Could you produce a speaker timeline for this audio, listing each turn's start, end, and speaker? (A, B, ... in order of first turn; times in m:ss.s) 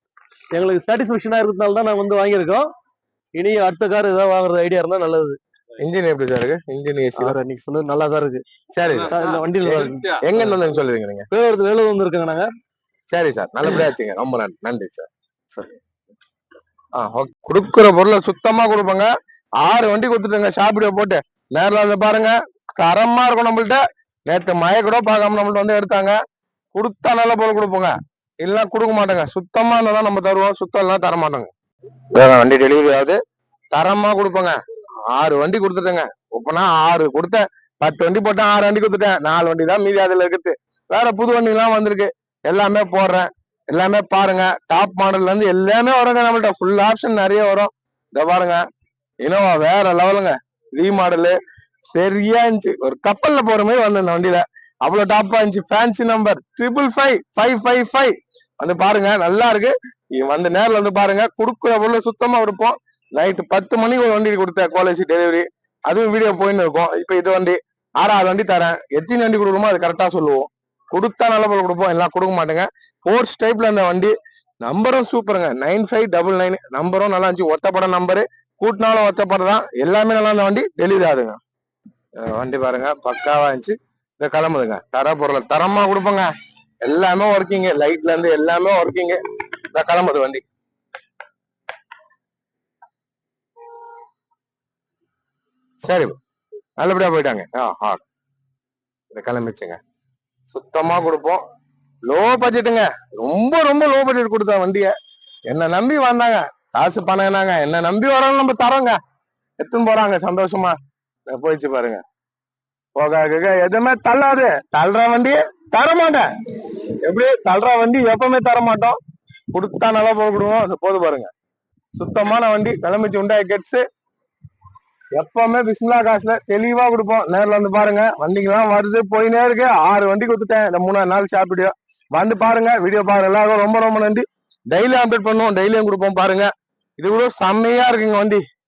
0:00.5-0:02.7 A
0:03.4-0:05.4 A
0:05.8-0:07.4 B
0:07.2-0:08.4 A
0:08.7-0:09.2 B
0:09.0-0:10.6 A
0:10.2-0:11.3 B
0:11.3-0:12.5 A
0:13.1-0:15.1 B
0:17.0-0:19.1 B
0:19.6-0:26.2 B
0:26.7-0:31.5 B
0:32.1-0:33.2 B
0:33.7-0:34.6 B
0:35.1-0:48.6 B
0:49.2-0:51.4 B
0:51.9-1:21.4 B
1:22.2-1:26.3 B
1:26.8-1:29.2 B
1:29.7-1:30.4 B
1:35.8-1:36.2 B
1:36.8-1:38.0 B
1:39.1-1:39.8 B
1:40.5-1:41.4 B
1:42.1-1:44.9 B
1:45.5-1:49.0 B
1:49.6-1:52.0 B
1:53.0-1:56.3 B
1:57.0-1:59.0 B
1:59.5-2:01.3 B
2:02.0-2:03.8 B
2:05.2-2:16.5 B
2:17.0-2:18.4 B